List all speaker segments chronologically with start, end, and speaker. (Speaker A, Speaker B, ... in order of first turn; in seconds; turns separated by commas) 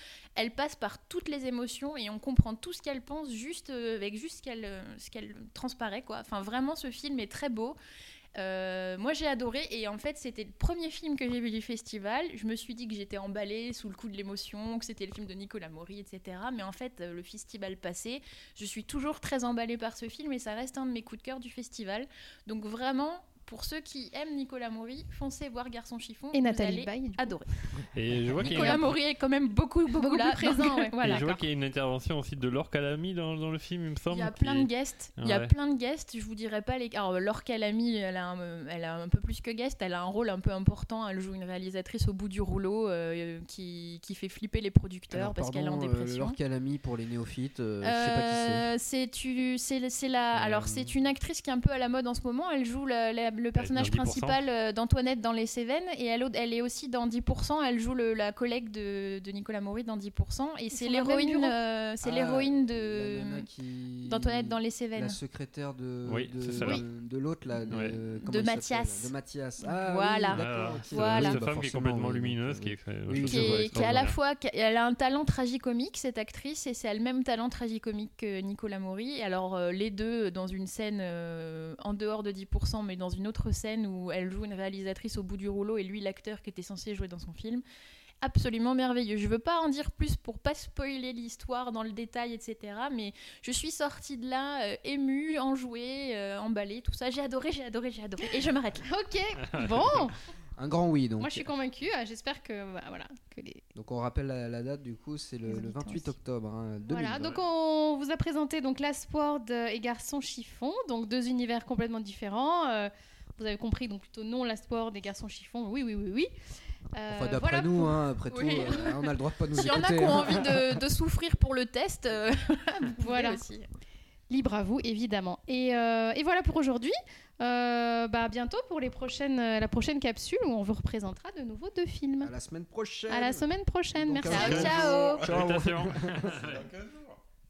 Speaker A: 0.4-7.8, Speaker A: 8.4-27.5, Speaker B: 26.3-27.4, Speaker C: 28.0-28.8, Speaker D: 28.0-28.7, Speaker A: 28.4-31.4, Speaker B: 30.0-31.2, Speaker D: 31.0-34.2, Speaker C: 31.2-31.8, Speaker C: 32.6-34.7, Speaker A: 34.1-46.4, Speaker C: 35.2-35.5, Speaker E: 45.1-48.7, Speaker A: 47.8-63.5, Speaker C: 50.3-50.9, Speaker D: 53.6-54.4, Speaker C: 53.6-54.2, Speaker B: 60.7-61.6, Speaker E: 62.0-73.8, Speaker A: 64.1-65.2, Speaker C: 66.0-66.8, Speaker A: 66.6-66.8, Speaker C: 67.7-67.9, Speaker A: 68.2-71.4, Speaker C: 70.3-74.2, Speaker A: 73.2-87.6, Speaker D: 73.6-73.9, Speaker A: 88.2-98.9, Speaker B: 98.9-100.2, Speaker E: 100.6-101.5, Speaker B: 101.2-103.6, Speaker E: 103.8-107.4, Speaker B: 105.5-106.1, Speaker B: 106.9-116.3, Speaker B: 117.0-118.1, Speaker E: 117.1-120.8, Speaker A: 118.3-123.7, Speaker B: 123.0-123.4, Speaker B: 124.3-132.3, Speaker E: 132.2-136.7, Speaker B: 133.1-134.8, Speaker A: 134.3-135.3, Speaker C: 134.3-137.2